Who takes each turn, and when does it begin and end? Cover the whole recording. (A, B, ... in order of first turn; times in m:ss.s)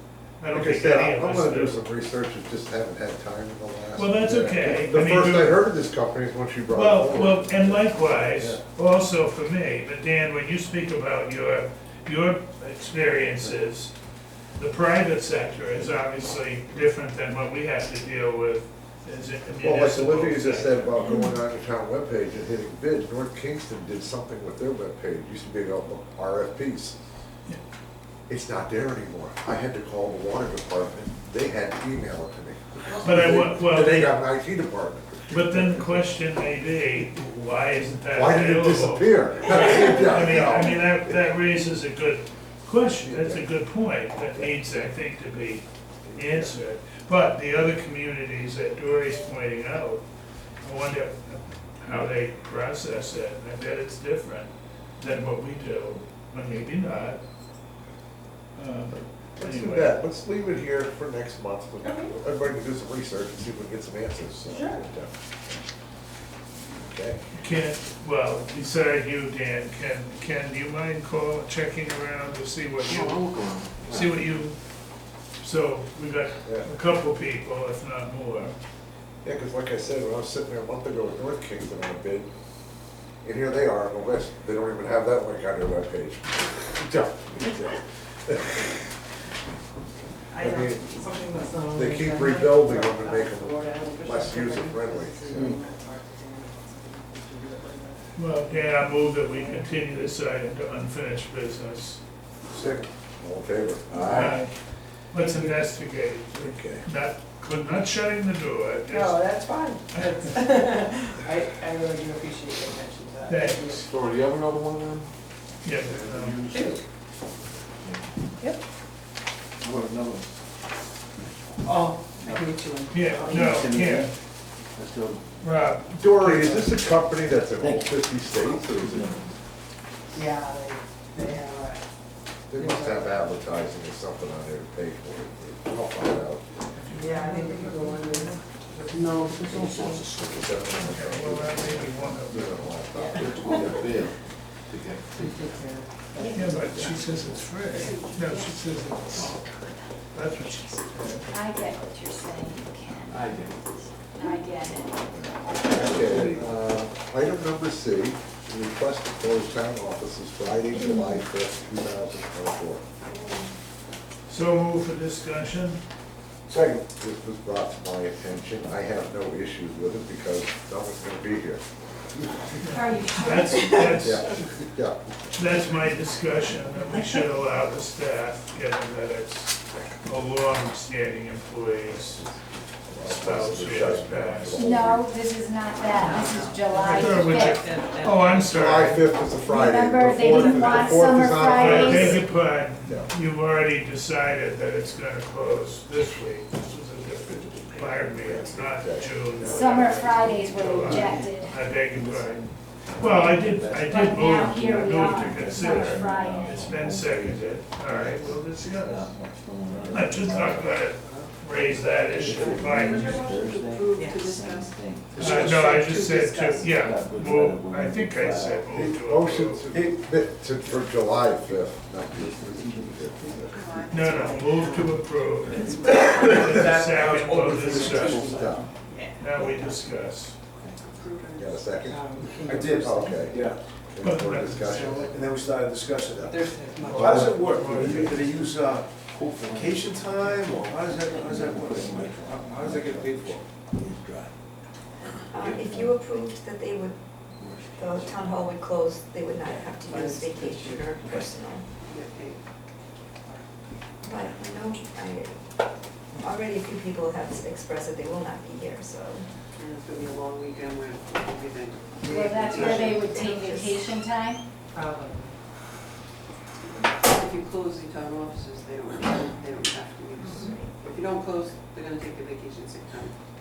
0:00.4-0:01.8 A
0:00.5-0:08.6 B
0:04.0-0:05.6 A
0:06.7-0:13.9 A
0:14.6-0:21.2 A
0:19.6-0:27.0 B
0:28.3-0:35.8 B
0:33.0-0:34.1 A
0:35.3-0:50.0 A
0:38.1-0:41.1 B
0:43.0-0:43.5 B
0:46.0-0:46.5 B
0:50.6-0:57.2 A
0:58.6-1:00.0 A
0:59.4-1:05.6 B
1:01.8-1:02.1 C
1:04.5-1:04.9 C
1:06.7-1:07.2 B
1:07.4-1:14.6 A
1:12.9-1:14.2 D
1:15.4-1:18.5 A
1:19.2-1:22.3 B
1:23.2-1:28.7 B
1:30.3-1:38.1 C
1:30.4-1:31.2 B
1:31.7-1:35.6 B
1:38.2-1:42.0 A
1:39.2-1:39.6 C
1:42.5-1:44.3 B
1:43.9-1:44.4 D
1:44.1-1:44.5 A
1:45.1-1:49.3 A
1:45.1-1:45.6 C
1:46.4-1:46.8 B
1:48.9-1:53.8 C
1:49.9-1:50.4 A
1:53.3-1:53.8 A
1:53.6-1:55.1 D
1:55.6-1:56.5 A
1:55.8-1:56.8 D
1:56.5-1:56.8 C
1:59.7-2:00.3 D
2:01.6-2:03.7 C
2:02.9-2:04.1 A
2:03.3-2:04.1 E
2:04.8-2:05.2 E
2:05.4-2:06.8 A
2:06.0-2:09.2 B
2:07.6-2:08.0 E
2:08.6-2:09.3 E
2:10.1-2:11.8 C
2:12.5-2:16.4 B
2:12.5-2:13.2 C
2:16.7-2:18.4 A
2:16.9-2:20.0 C
2:18.9-2:20.9 D
2:20.3-2:23.8 B
2:20.8-2:22.7 A
2:22.9-2:23.7 C
2:23.2-2:24.1 D
2:24.7-2:25.7 D
2:25.2-2:27.1 C
2:26.3-2:29.4 A
2:27.7-2:28.4 F
2:30.1-2:31.3 A
2:31.3-2:33.2 E
2:33.1-2:33.8 D
2:34.1-2:35.1 E
2:35.1-2:42.8 B
2:35.7-2:36.4 D
2:44.3-2:45.8 A
2:46.5-2:51.6 B
2:52.6-2:53.8 E
2:53.2-2:54.4 A
2:53.9-2:55.0 B
2:55.3-3:02.2 A
3:02.1-3:05.0 B
3:03.0-3:04.6 A
3:04.5-3:07.7 E
3:06.0-3:08.5 C
3:06.9-3:09.0 A
3:08.4-3:13.1 B
3:09.4-3:12.2 E
3:11.5-3:29.2 A
3:18.2-3:19.8 B
3:19.4-3:21.6 E
3:20.7-3:21.3 G
3:21.9-3:22.4 G
3:23.0-3:30.5 E
3:29.7-3:31.3 G
3:29.9-3:33.1 A
3:32.0-3:36.7 F
3:32.1-3:35.1 E
3:34.0-3:34.3 C
3:35.2-3:35.5 G
3:35.2-3:39.6 A
3:35.4-3:35.8 D
3:36.1-3:36.6 G
3:36.6-3:38.6 E
3:38.7-3:39.0 G
3:38.8-3:43.8 B
3:39.7-3:40.0 G
3:42.5-3:43.6 E
3:43.5-3:48.1 F
3:43.9-3:48.3 A
3:44.1-3:44.5 C
3:45.5-3:49.8 C
3:47.6-3:48.1 G
3:48.0-3:48.6 E
3:49.2-3:50.4 A
3:50.8-3:51.7 F
3:51.3-3:55.1 B
3:51.8-3:53.3 C
3:52.4-3:53.6 G
3:54.0-3:55.1 A
3:54.7-4:03.4 G
3:56.2-3:57.8 C
3:56.8-3:58.2 A
3:56.9-3:57.3 B
3:59.5-4:00.3 E
4:01.1-4:04.1 E
4:05.3-4:07.0 H
4:07.7-4:11.6 H
4:09.9-4:11.2 G
4:11.8-4:12.4 F
4:14.0-4:15.4 H
4:16.2-4:19.3 H
4:19.6-4:23.3 F
4:22.1-4:24.4 E
4:22.4-4:23.8 H
4:24.7-4:25.3 C
4:26.7-4:33.2 F
4:30.2-4:30.7 H